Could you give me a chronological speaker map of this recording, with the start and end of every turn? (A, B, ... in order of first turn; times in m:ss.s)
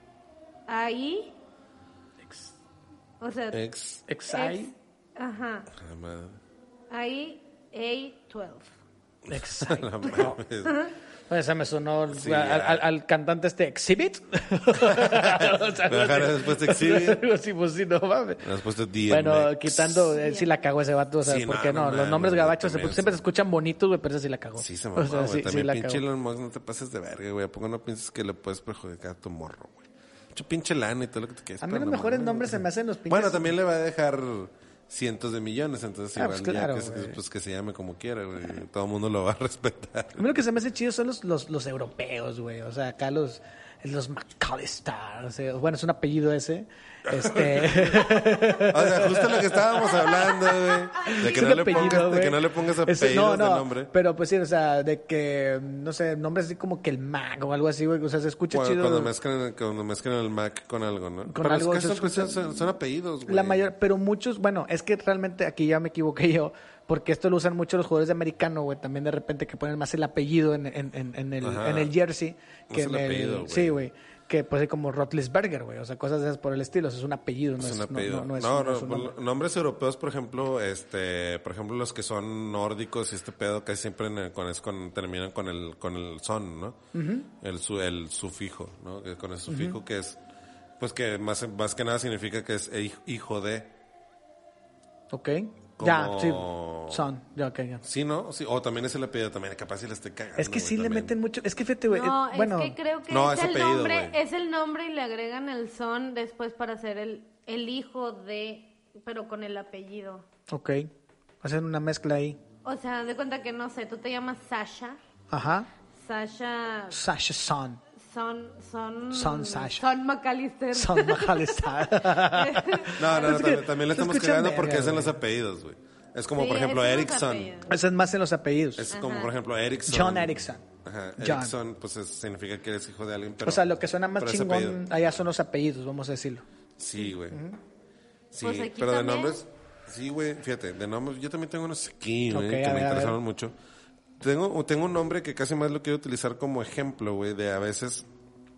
0:00.7-0:01.3 A
0:02.2-0:02.5 B
0:03.2-0:03.6 A
0:03.5-0:04.0 C
0:04.1-0:04.7 B
0:04.3-0:05.7 A
0:05.7-0:06.4 C
0:06.9-0:08.7 A
0:09.3-0:10.8 C
0:09.3-0:10.4 B
0:10.7-0:10.9 A
0:11.3-0:18.4 B
0:12.1-0:12.8 C
0:14.8-0:17.2 C
0:18.4-0:20.2 C
0:19.1-0:26.0 B
0:20.2-0:20.5 A
0:21.2-0:23.2 C
0:24.6-0:40.4 C
0:31.6-0:33.5 B
0:36.2-0:37.2 B
0:40.2-0:50.1 B
0:47.1-0:53.9 C
0:50.9-0:59.1 B
0:58.5-1:03.7 C
1:01.3-1:02.7 B
1:03.3-1:19.1 B
1:11.4-1:11.9 C
1:12.7-1:13.8 C
1:17.6-1:26.8 C
1:26.9-1:27.3 B
1:27.3-1:30.2 C
1:29.5-1:29.8 B
1:30.8-1:33.7 C
1:35.1-1:37.8 B
1:35.8-1:37.1 C
1:37.8-1:41.1 C
1:40.4-1:42.8 B
1:41.9-1:50.2 A
1:43.1-1:44.2 C
1:50.5-1:50.9 B
1:51.4-1:52.4 B
1:52.6-1:55.0 A
1:55.3-1:55.7 B
1:56.0-1:57.0 A
1:56.9-1:57.8 B
1:58.0-2:03.3 A
1:59.1-1:59.9 B
2:00.7-2:05.2 B
2:03.0-2:07.6 C
2:06.4-2:07.7 A
2:07.7-2:08.9 B
2:08.8-2:14.8 C
2:08.9-2:09.3 A
2:09.9-2:10.6 B
2:11.2-2:11.5 B
2:13.4-2:16.4 B
2:16.8-2:17.4 C
2:17.3-2:17.6 B
2:18.3-2:23.6 C
2:18.4-2:19.4 A
2:22.3-2:23.2 B
2:24.2-2:28.1 C